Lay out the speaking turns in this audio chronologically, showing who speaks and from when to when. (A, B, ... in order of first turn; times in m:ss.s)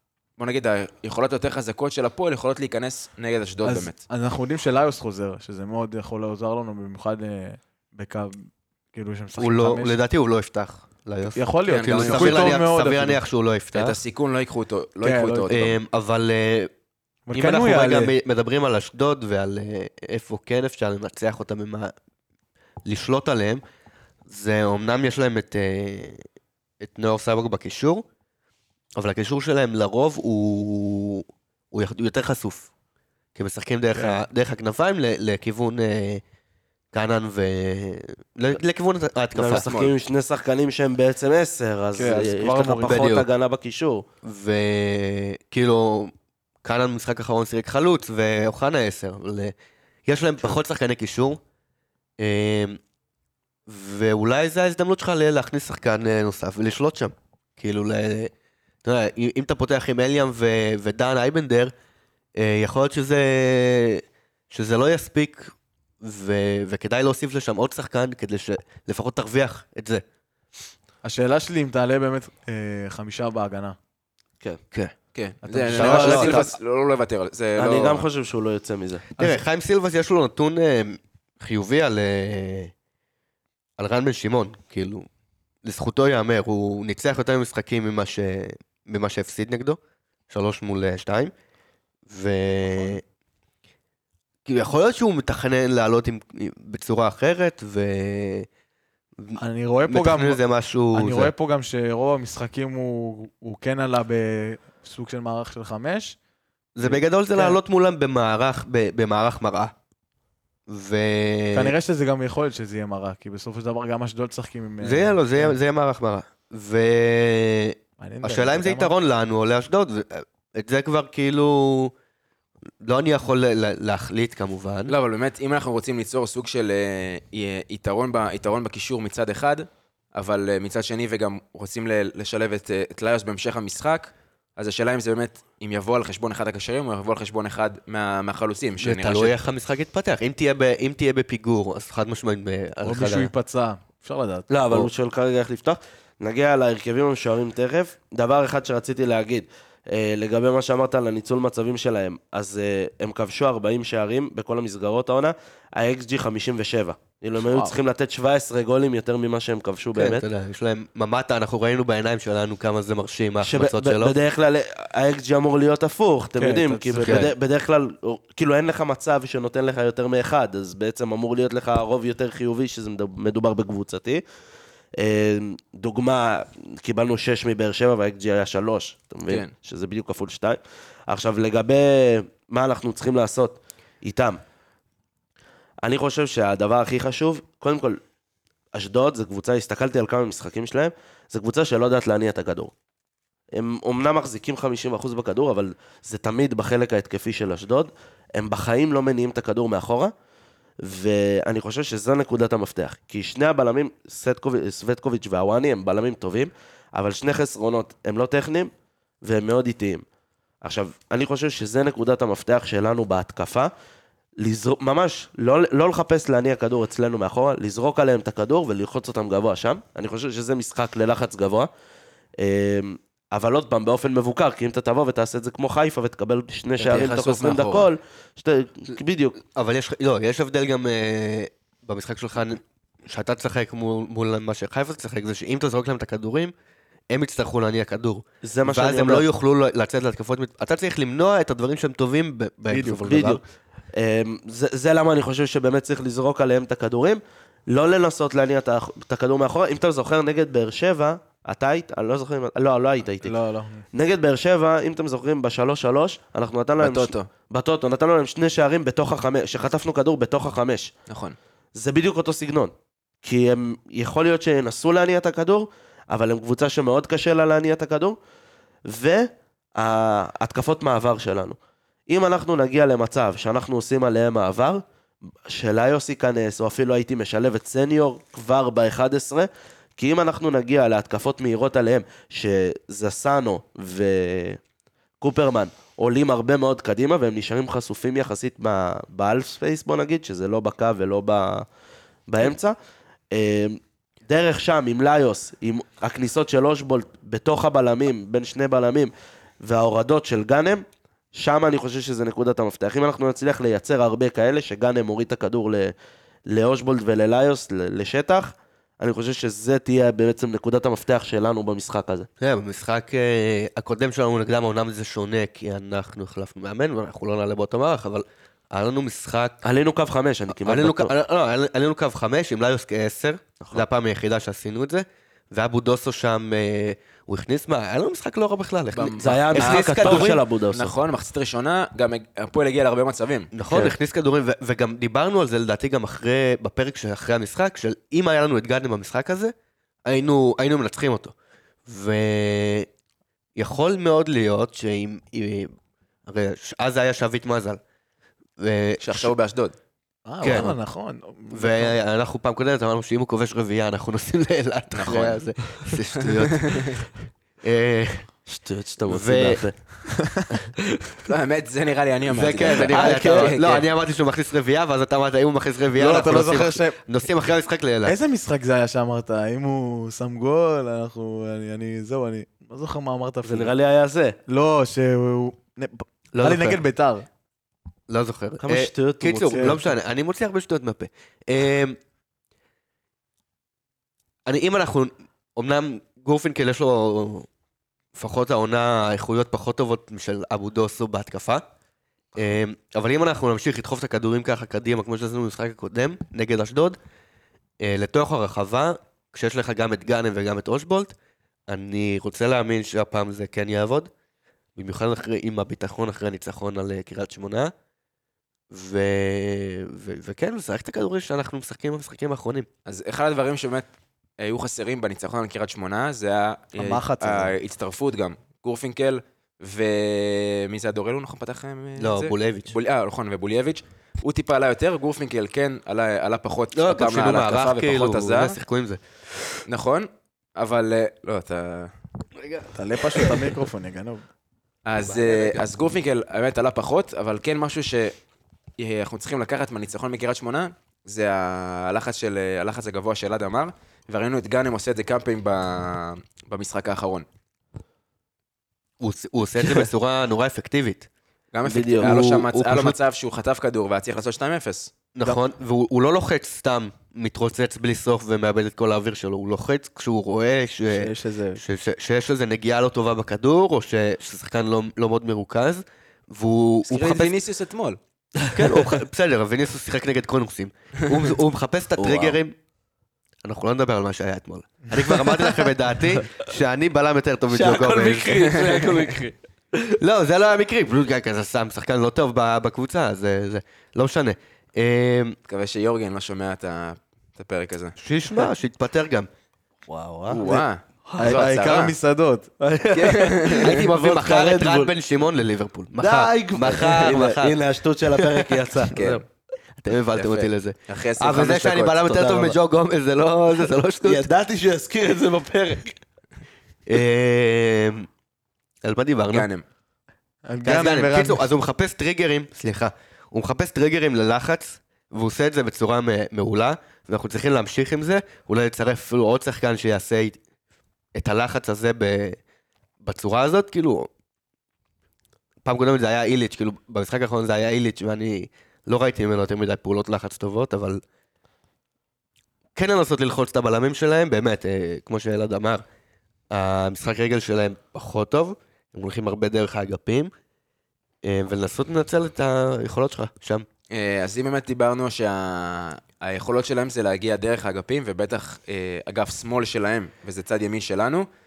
0:00.4-0:04.0 A
0:03.6-0:10.0 B
0:09.4-0:14.0 C
0:11.4-0:13.2 B
0:11.7-0:12.7 A
0:13.7-0:15.7 A
0:15.0-0:15.6 B
0:15.5-0:16.7 C
0:17.3-0:18.1 B
0:17.3-0:21.9 C
0:22.9-0:23.6 C
0:24.3-0:26.2 C
0:26.8-0:28.0 C
0:29.0-0:32.7 C
0:33.4-0:36.2 C
0:34.0-0:34.2 B
0:36.9-0:39.6 C
0:39.4-0:44.0 D
0:39.5-0:39.9 A
0:42.0-0:43.0 B
0:42.8-0:43.3 C
0:44.2-0:46.1 C
0:46.6-0:49.5 C
0:50.1-0:51.4 C
0:52.2-0:52.8 C
0:53.7-0:58.3 C
0:58.8-1:01.7 C
1:02.4-1:10.0 C
1:11.0-1:13.8 B
1:15.1-1:18.0 A
1:15.4-1:16.4 B
1:15.8-1:16.4 C
1:15.8-1:16.5 D
1:17.6-1:19.1 D
1:19.2-1:22.7 C
1:23.8-1:25.1 C
1:25.6-1:29.8 C
1:30.3-1:31.3 C
1:32.1-1:33.0 C
1:34.4-1:38.5 C
1:39.2-1:41.3 C
1:39.4-1:40.4 B
1:40.9-1:46.2 B
1:46.8-1:49.7 C
1:46.8-1:47.6 B
1:50.7-1:51.8 C
1:51.5-1:55.6 B
1:54.8-2:01.9 C
1:58.0-1:58.9 B
2:02.8-2:04.9 C
2:04.9-2:19.4 A
2:18.8-2:23.3 C
2:22.8-2:24.5 B
2:24.5-2:40.2 D
2:37.4-2:37.8 B
2:40.0-2:44.2 C
2:43.4-2:54.2 D
2:46.4-2:47.3 B
2:47.0-2:47.3 C
2:55.0-3:04.4 D
3:05.8-3:08.0 D
3:08.7-3:12.7 D
3:13.6-3:20.1 D
3:20.8-3:28.7 D
3:29.2-3:30.0 D
3:30.6-3:33.7 D
3:34.4-3:41.7 D
3:42.4-3:49.4 D
3:46.8-3:47.9 A
3:49.4-3:56.5 C
3:57.1-4:03.4 C
3:58.4-3:59.2 D
4:02.7-4:03.1 B
4:03.0-4:03.4 D
4:03.9-4:13.4 D
4:13.2-4:13.8 B
4:13.9-4:20.9 D
4:16.8-4:17.3 A
4:21.1-4:21.4 A
4:21.8-4:22.7 D
4:23.2-4:28.2 D
4:28.9-4:31.6 D
4:32.1-4:34.8 D
4:35.5-4:44.6 D
4:45.2-4:51.7 D
4:52.3-4:52.8 D
4:53.3-5:05.9 D
5:06.5-5:12.3 D
5:12.4-5:19.6 C
5:19.6-5:21.1 D
5:20.5-5:30.4 C
5:28.9-5:33.5 A
5:29.2-5:30.9 D
5:33.5-5:39.5 C
5:33.7-5:34.0 D
5:40.1-5:41.3 C
5:41.9-5:42.9 C
5:43.6-5:45.7 C
5:46.3-5:47.8 C
5:48.6-5:49.3 C
5:49.0-5:49.7 A
5:50.3-5:52.0 B
5:50.4-5:50.8 C
5:51.5-5:57.1 C
5:54.9-5:57.0 A
5:57.6-5:58.3 C
5:58.5-5:59.8 D
5:59.1-5:59.6 C
6:00.1-6:00.4 B
6:01.3-6:03.9 A
6:02.3-6:08.2 C
6:02.9-6:03.3 D
6:02.9-6:03.4 B
6:06.0-6:07.0 B
6:08.0-6:13.7 B
6:13.4-6:14.4 D
6:14.5-6:17.3 B
6:16.3-6:16.8 C
6:18.1-6:22.0 C
6:18.6-6:19.8 D
6:19.5-6:19.8 B
6:24.5-6:27.5 C
6:28.2-6:31.6 C
6:32.4-6:37.0 C
6:37.8-6:41.2 C
6:41.7-6:44.1 C
6:44.8-6:47.7 C
6:48.7-6:52.7 C
6:52.9-6:53.9 A
6:54.4-7:08.6 A
6:56.8-6:57.6 B
7:02.0-7:02.8 C
7:06.7-7:09.0 C
7:09.7-7:11.9 A
7:12.4-7:13.4 C
7:12.7-7:14.2 B
7:14.9-7:18.2 A
7:15.0-7:15.7 C
7:18.8-7:27.3 A
7:29.0-7:31.1 C
7:31.5-7:34.9 A
7:31.7-7:32.2 D
7:32.0-7:33.0 C
7:35.2-7:47.4 C
7:40.9-7:41.6 B
7:46.8-7:48.0 A
7:48.5-7:52.6 C
7:52.0-7:52.4 D
7:53.4-7:59.2 C
7:57.5-7:59.3 D
7:58.3-7:58.9 A
7:59.9-8:05.4 C
8:05.5-8:08.0 A
8:08.0-8:09.3 C
8:09.9-8:10.4 D
8:10.3-8:12.0 A
8:10.4-8:12.5 B
8:12.6-8:14.9 D
8:12.9-8:13.8 A
8:13.5-8:17.6 C
8:16.0-8:19.1 D
8:18.2-8:19.2 C
8:18.9-8:19.2 A
8:19.8-8:24.3 C
8:20.1-8:22.0 A
8:22.0-8:22.6 D
8:24.0-8:26.0 D
8:26.9-8:28.1 C
8:28.8-8:29.5 C
8:29.3-8:29.6 A
8:30.5-8:31.5 B
8:30.6-8:40.4 C
8:41.2-8:42.4 C
8:43.0-8:44.1 C
8:45.6-8:51.0 C
8:52.8-8:55.8 C
8:56.5-9:00.3 C
9:01.2-9:03.7 C
9:03.9-9:11.3 A